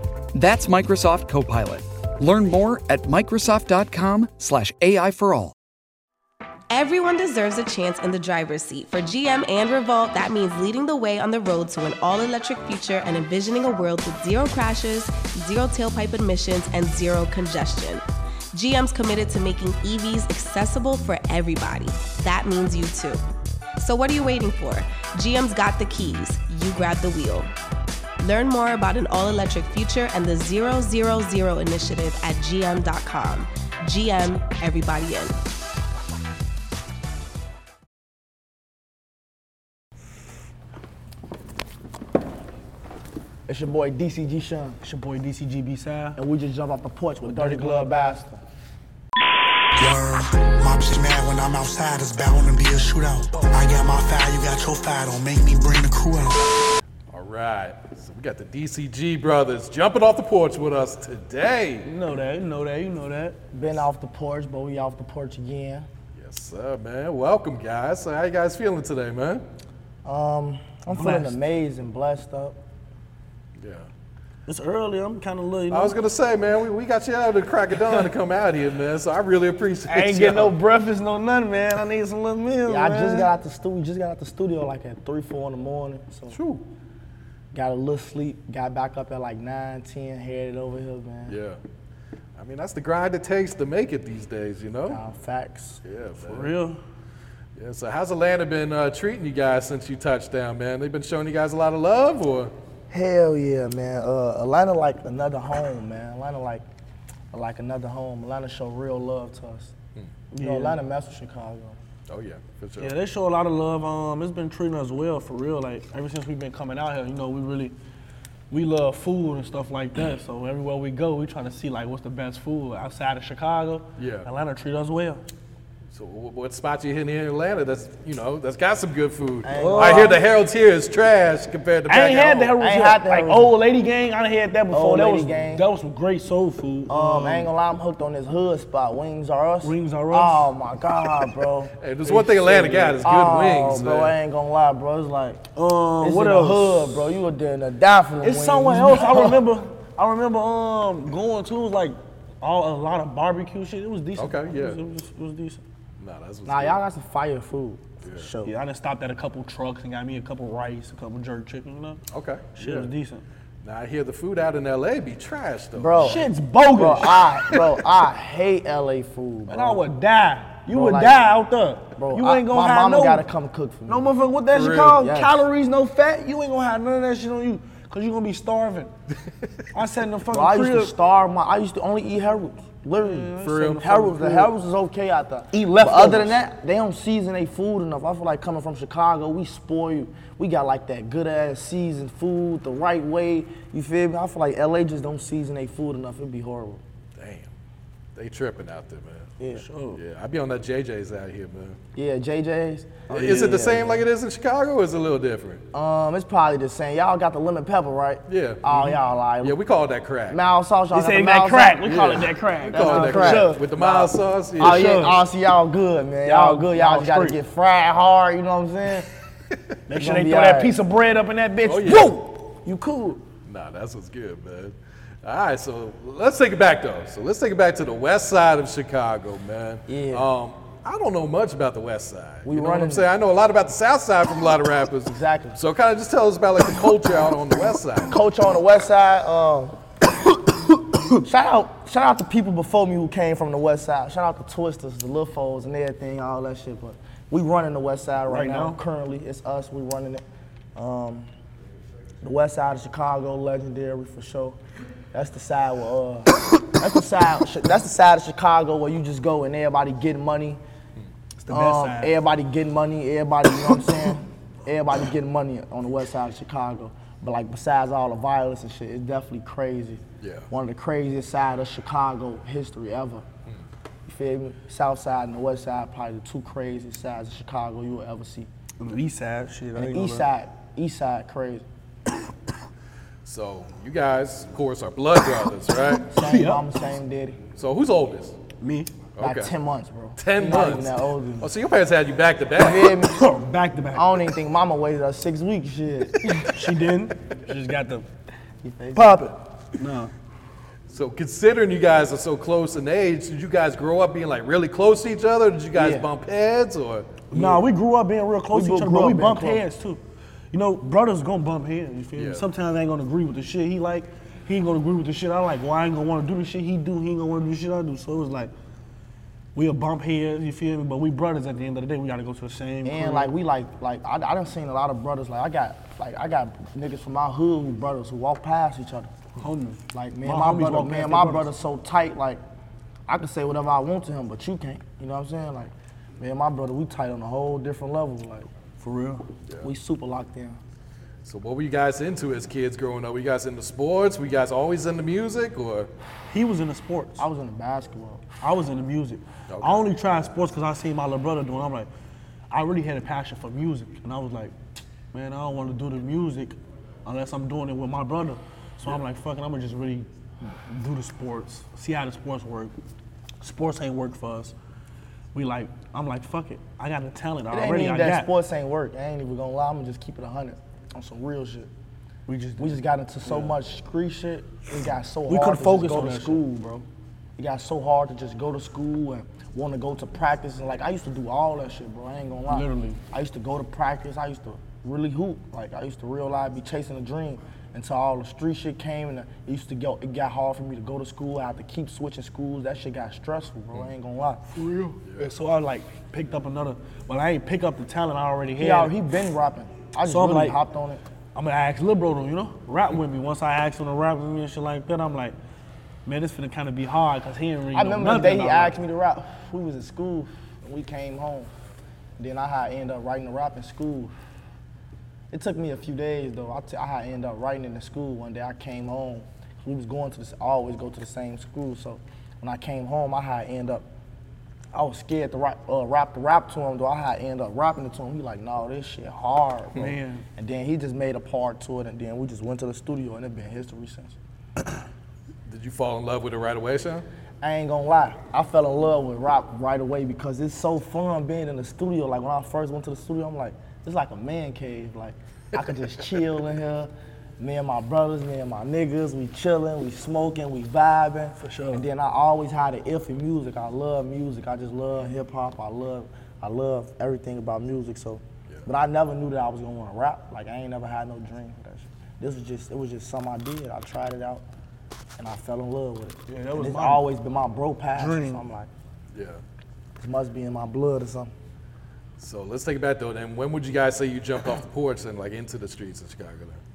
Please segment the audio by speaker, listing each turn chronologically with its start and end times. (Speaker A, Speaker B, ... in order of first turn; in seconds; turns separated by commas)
Speaker A: 0.3-5.5, Speaker B: 6.7-23.2, Speaker B: 23.8-27.5, Speaker B: 28.2-35.4, Speaker C: 43.5-44.8, Speaker D: 44.8-46.2, Speaker C: 46.1-48.4, Speaker D: 47.2-48.2, Speaker E: 49.8-56.5, Speaker F: 57.1-61.9, Speaker D: 61.8-63.4, Speaker C: 63.5-65.9, Speaker F: 66.2-69.4, Speaker C: 70.0-72.6, Speaker D: 70.9-71.4, Speaker F: 73.6-73.9, Speaker D: 74.5-76.0, Speaker F: 75.7-80.5, Speaker D: 79.9-83.3, Speaker C: 82.7-86.4, Speaker F: 86.3-86.6, Speaker C: 87.5-91.3, Speaker F: 91.3-91.6, Speaker F: 92.4-95.0, Speaker C: 94.9-95.8, Speaker F: 95.8-96.5, Speaker D: 96.2-96.8, Speaker F: 97.5-102.5, Speaker C: 102.9-106.6, Speaker C: 107.3-109.7, Speaker C: 110.3-111.8, Speaker D: 110.4-110.8, Speaker F: 112.1-113.0, Speaker D: 112.8-117.8, Speaker D: 118.5-125.2, Speaker F: 124.0-124.3, Speaker F: 125.9-132.5, Speaker C: 129.4-130.2, Speaker D: 129.5-130.2, Speaker D: 131.9-137.5, Speaker C: 132.6-133.5, Speaker C: 134.7-135.7, Speaker C: 136.9-145.5, Speaker D: 139.6-140.5, Speaker F: 141.8-144.2, Speaker D: 145.5-147.0, Speaker C: 146.0-149.4, Speaker D: 148.2-155.6, Speaker F: 154.2-154.8, Speaker F: 156.0-156.8, Speaker C: 156.4-158.5, Speaker F: 158.0-158.3, Speaker D: 158.4-162.0, Speaker F: 162.1-162.9, Speaker D: 162.6-163.2, Speaker F: 163.6-166.2, Speaker C: 165.8-169.8, Speaker D: 166.0-167.2, Speaker D: 169.5-173.2, Speaker C: 170.7-171.2, Speaker C: 172.0-174.1, Speaker D: 173.9-178.9, Speaker F: 174.5-175.0, Speaker C: 175.0-175.4, Speaker D: 179.7-180.9, Speaker C: 180.3-196.8, Speaker D: 183.0-184.5, Speaker F: 183.4-183.8, Speaker D: 185.5-186.4, Speaker F: 197.2-197.5, Speaker F: 198.1-199.3, Speaker D: 199.5-200.0, Speaker F: 199.9-201.8, Speaker C: 201.9-204.0, Speaker F: 203.1-205.6, Speaker C: 205.7-209.6, Speaker F: 208.3-208.6, Speaker F: 209.4-210.4, Speaker C: 210.3-219.1, Speaker D: 210.9-213.7, Speaker F: 212.7-214.9, Speaker D: 214.6-215.2, Speaker D: 216.2-217.4, Speaker D: 219.9-223.2, Speaker C: 220.0-220.8, Speaker F: 221.6-222.2, Speaker F: 223.4-238.2, Speaker C: 229.9-230.2, Speaker C: 232.4-233.1, Speaker C: 235.1-235.6, Speaker C: 238.1-239.8, Speaker C: 241.2-250.2, Speaker D: 248.3-248.8, Speaker C: 250.7-251.3, Speaker C: 252.2-254.6, Speaker C: 255.1-260.6, Speaker D: 261.4-262.2, Speaker C: 261.5-273.2, Speaker F: 270.2-270.5, Speaker C: 274.1-278.5, Speaker D: 278.8-280.3, Speaker C: 279.7-281.6, Speaker F: 283.2-286.1, Speaker C: 286.1-287.4, Speaker D: 286.1-286.6, Speaker F: 287.6-288.4, Speaker D: 288.6-288.9, Speaker F: 289.2-289.5, Speaker C: 289.2-291.5, Speaker F: 290.2-293.0, Speaker C: 292.6-293.2, Speaker D: 292.8-294.2, Speaker C: 293.9-296.6, Speaker D: 296.4-298.0, Speaker C: 298.6-299.4, Speaker D: 298.9-300.1, Speaker F: 300.9-307.2, Speaker C: 305.7-306.1, Speaker D: 307.3-310.0, Speaker C: 307.3-307.6, Speaker C: 308.5-309.6, Speaker D: 310.5-318.5, Speaker F: 312.1-312.4, Speaker D: 319.5-323.3, Speaker C: 322.8-329.3, Speaker D: 329.4-331.5, Speaker C: 329.9-332.4, Speaker C: 333.1-338.5, Speaker D: 338.8-339.3, Speaker C: 339.6-340.6, Speaker F: 341.2-345.9, Speaker D: 346.3-347.2, Speaker C: 347.2-348.2, Speaker D: 348.4-351.9, Speaker F: 349.5-349.8, Speaker D: 352.5-354.6, Speaker D: 355.1-362.7, Speaker D: 363.4-364.5, Speaker D: 365.3-368.3, Speaker C: 367.5-371.7, Speaker D: 372.3-373.5, Speaker C: 372.6-376.9, Speaker D: 375.3-376.4, Speaker C: 377.4-394.5, Speaker D: 382.5-383.0, Speaker D: 394.5-398.9, Speaker F: 395.0-395.3, Speaker C: 398.6-401.0, Speaker D: 400.0-400.6, Speaker D: 401.3-405.4, Speaker D: 406.0-408.8, Speaker C: 407.7-411.5, Speaker C: 412.2-414.1, Speaker C: 415.3-423.8, Speaker C: 424.7-434.2, Speaker D: 429.8-430.2, Speaker F: 435.5-437.1, Speaker C: 437.4-464.4, Speaker D: 451.4-451.9, Speaker C: 465.2-468.7, Speaker D: 466.3-467.1, Speaker D: 467.9-468.4, Speaker F: 469.1-469.4, Speaker C: 470.0-471.3, Speaker F: 472.2-476.6